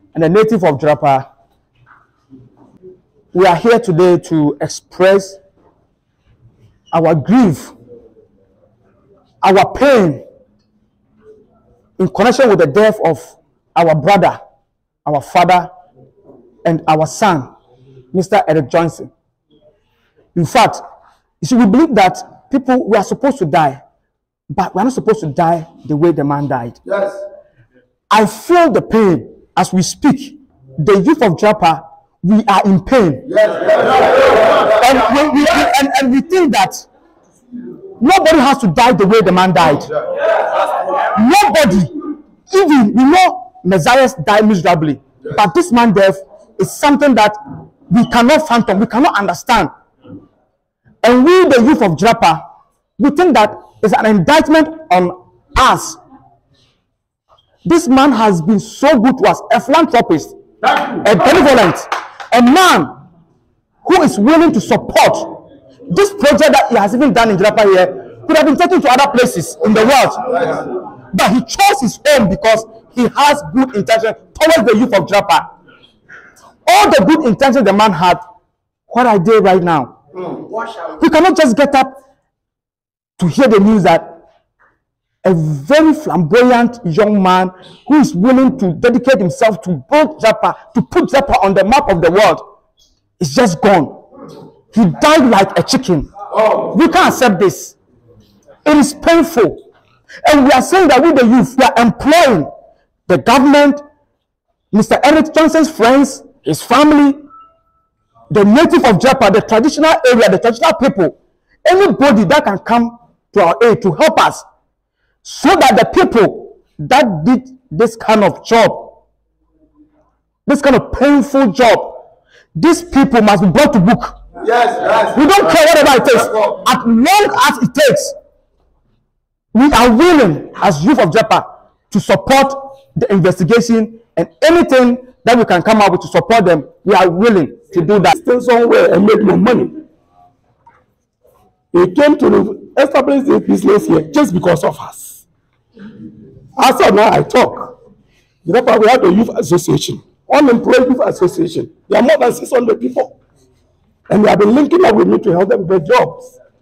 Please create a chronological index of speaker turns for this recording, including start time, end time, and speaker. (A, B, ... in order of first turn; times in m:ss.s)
0:00.1-0:01.2 A
0:03.3-0:05.4 A
0:06.9-0:07.8 A
0:09.4-0:10.2 A
0:12.0-0:14.4 A
0:15.0-0:15.7 A
0:16.6-0:17.5 A
0:18.1-0:19.1 A
0:20.4-0:20.8 A
0:21.4-0:23.8 A
0:24.5-0:26.8 A
0:26.9-0:27.2 B
0:28.1-0:33.3 A
0:33.3-0:34.6 B
0:34.6-0:36.9 A
0:38.0-0:39.9 A
0:41.0-0:47.4 A
0:47.9-0:49.7 A
0:51.0-0:52.4 A
0:53.0-0:56.0 A
0:57.6-1:00.4 A
1:01.0-1:03.0 A
1:03.8-1:05.4 A
1:05.9-1:10.3 A
1:11.1-1:15.5 A
1:16.7-1:18.2 A
1:18.9-1:20.0 A
1:21.0-1:21.9 A
1:23.2-1:24.2 A
1:25.2-1:32.4 A
1:33.2-1:34.0 A
1:34.7-1:36.1 A
1:36.7-1:37.8 A
1:38.6-1:39.6 A
1:40.3-1:42.5 A
1:43.1-1:43.8 A
1:44.7-1:47.2 A
1:48.3-1:54.4 A
1:55.2-1:59.0 A
2:00.5-2:02.0 A
2:02.6-2:04.2 A
2:04.4-2:05.3 B
2:05.1-2:08.2 A
2:06.2-2:06.5 B
2:09.5-2:18.1 A
2:18.1-2:19.8 C
2:21.7-2:25.2 C
2:26.6-2:27.8 C
2:28.4-2:33.2 C
2:34.1-2:36.4 C